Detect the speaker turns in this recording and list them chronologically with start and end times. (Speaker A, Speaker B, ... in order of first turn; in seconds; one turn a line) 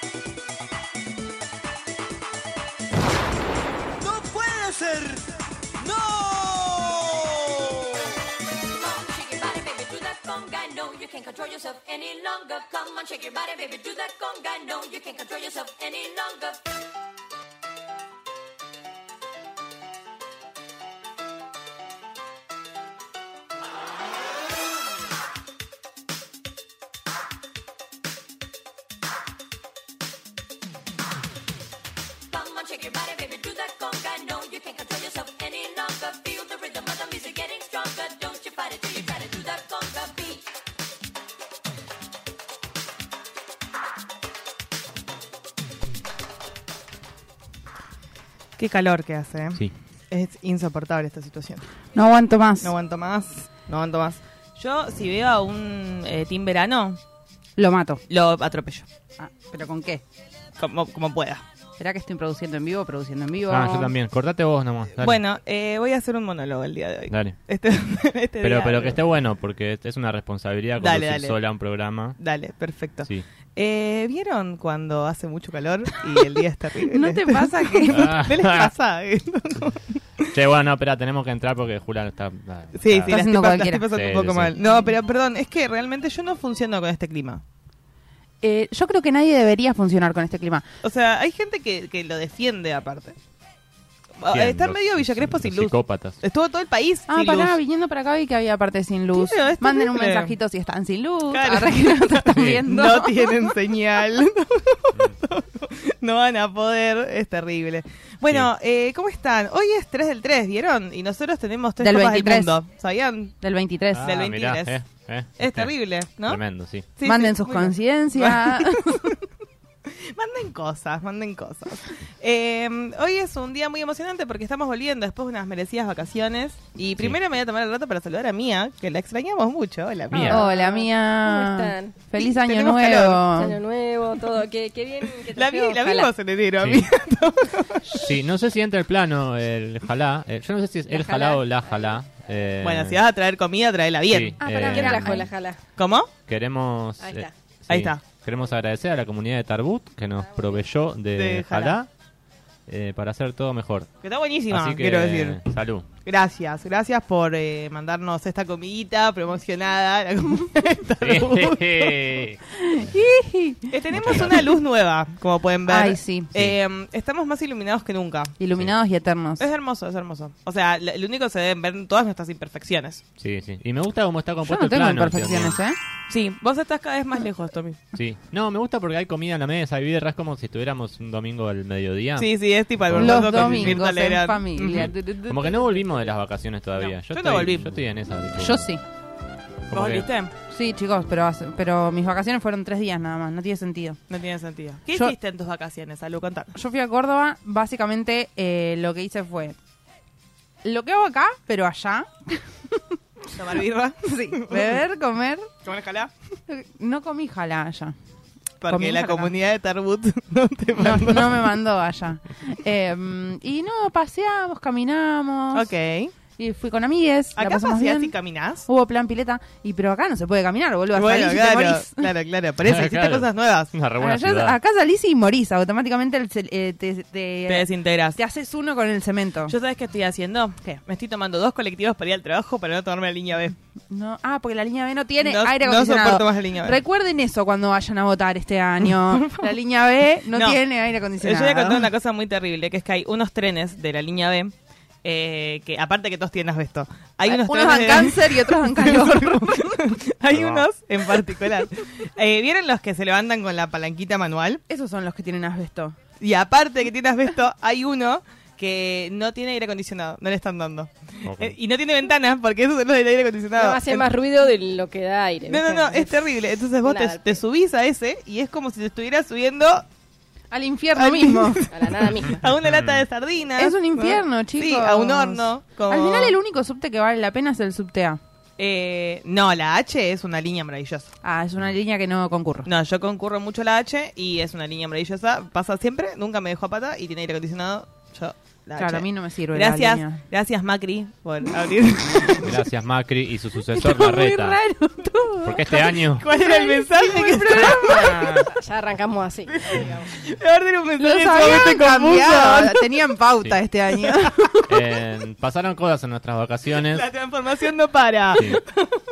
Speaker A: 4.0-5.2
Speaker A: 5.8-7.3
Speaker B: 8.7-16.7
Speaker B: 32.3-40.5
Speaker C: 48.6-51.7
Speaker D: 52.0-52.7
Speaker C: 52.6-57.0
Speaker D: 57.6-58.0
Speaker C: 58.1-58.9
Speaker D: 59.2-60.0
Speaker C: 60.6-61.4
Speaker D: 61.8-63.9
Speaker E: 63.5-65.2
Speaker C: 65.0-69.0
Speaker E: 67.1-67.4
Speaker E: 68.4-72.2
Speaker C: 70.8-71.4
Speaker C: 72.2-80.3
Speaker D: 76.8-78.2
Speaker E: 77.9-78.7
Speaker E: 80.3-83.2
Speaker C: 82.8-87.4
Speaker D: 83.1-83.9
Speaker E: 83.9-84.5
Speaker D: 88.4-90.7
Speaker C: 90.8-93.2
Speaker C: 94.2-97.5
Speaker E: 94.3-96.2
Speaker D: 97.1-103.5
Speaker C: 99.2-100.3
Speaker C: 101.3-113.3
Speaker E: 102.3-102.6
Speaker D: 111.8-112.6
Speaker D: 113.4-114.1
Speaker E: 113.9-116.9
Speaker C: 114.0-114.8
Speaker C: 115.4-119.2
Speaker D: 117.0-119.1
Speaker C: 120.1-130.5
Speaker E: 130.1-130.4
Speaker D: 130.2-133.6
Speaker F: 130.3-132.1
Speaker C: 132.3-133.3
Speaker F: 133.3-136.1
Speaker C: 135.3-138.0
Speaker E: 136.6-136.9
Speaker E: 137.9-143.0
Speaker F: 140.9-142.0
Speaker C: 142.6-144.4
Speaker E: 144.1-145.2
Speaker D: 144.4-145.3
Speaker F: 144.6-145.6
Speaker C: 145.8-146.1
Speaker E: 146.2-151.9
Speaker F: 147.0-147.3
Speaker C: 147.7-148.1
Speaker F: 150.2-150.7
Speaker C: 151.1-151.8
Speaker E: 152.7-153.9
Speaker C: 154.0-155.4
Speaker E: 154.5-155.9
Speaker C: 156.0-162.0
Speaker E: 161.0-162.4
Speaker D: 162.6-163.7
Speaker C: 163.7-168.4
Speaker E: 163.9-164.5
Speaker D: 165.7-166.3
Speaker D: 168.4-169.5
Speaker C: 169.4-173.0
Speaker E: 173.2-175.6
Speaker D: 174.5-175.8
Speaker C: 176.1-177.8
Speaker E: 177.9-183.9
Speaker C: 182.2-184.9
Speaker D: 182.9-185.8
Speaker E: 184.7-188.7
Speaker C: 186.8-187.7
Speaker D: 188.4-188.8
Speaker E: 189.7-190.1
Speaker C: 189.7-190.3
Speaker D: 190.5-194.0
Speaker C: 194.1-196.5
Speaker D: 196.6-199.6
Speaker D: 200.6-203.0
Speaker C: 203.3-204.8
Speaker D: 204.1-205.5
Speaker C: 205.7-206.1
Speaker D: 206.5-208.0
Speaker C: 208.6-211.5
Speaker D: 208.7-209.3
Speaker D: 210.8-215.7
Speaker C: 215.5-216.1
Speaker D: 216.4-218.1
Speaker C: 217.4-218.7
Speaker D: 218.7-222.1
Speaker C: 220.9-223.7
Speaker E: 222.6-224.6
Speaker D: 224.0-229.6
Speaker C: 227.5-228.2
Speaker C: 229.5-233.6
Speaker D: 233.9-241.9
Speaker C: 235.2-236.8
Speaker C: 238.8-239.4
Speaker C: 240.3-240.6
Speaker C: 241.2-254.6
Speaker D: 247.3-249.8
Speaker E: 250.3-250.7
Speaker D: 254.7-256.0
Speaker C: 256.2-264.1
Speaker E: 261.2-261.6
Speaker F: 263.6-266.2
Speaker C: 265.5-269.9
Speaker F: 266.8-267.4
Speaker D: 270.5-271.6
Speaker C: 271.0-276.4
Speaker F: 271.7-272.4
Speaker E: 272.6-273.0
Speaker D: 273.6-278.2
Speaker C: 278.6-281.1
Speaker D: 281.2-282.7
Speaker C: 282.7-292.6
Speaker D: 288.8-290.2
Speaker E: 292.4-294.6
Speaker D: 293.7-298.4
Speaker E: 295.4-296.3
Speaker C: 296.2-298.3
Speaker E: 297.9-298.5
Speaker F: 298.4-299.7
Speaker C: 299.6-302.9
Speaker D: 301.0-304.8
Speaker C: 304.1-304.5
Speaker E: 304.7-307.1
Speaker C: 306.8-308.9
Speaker E: 308.4-308.6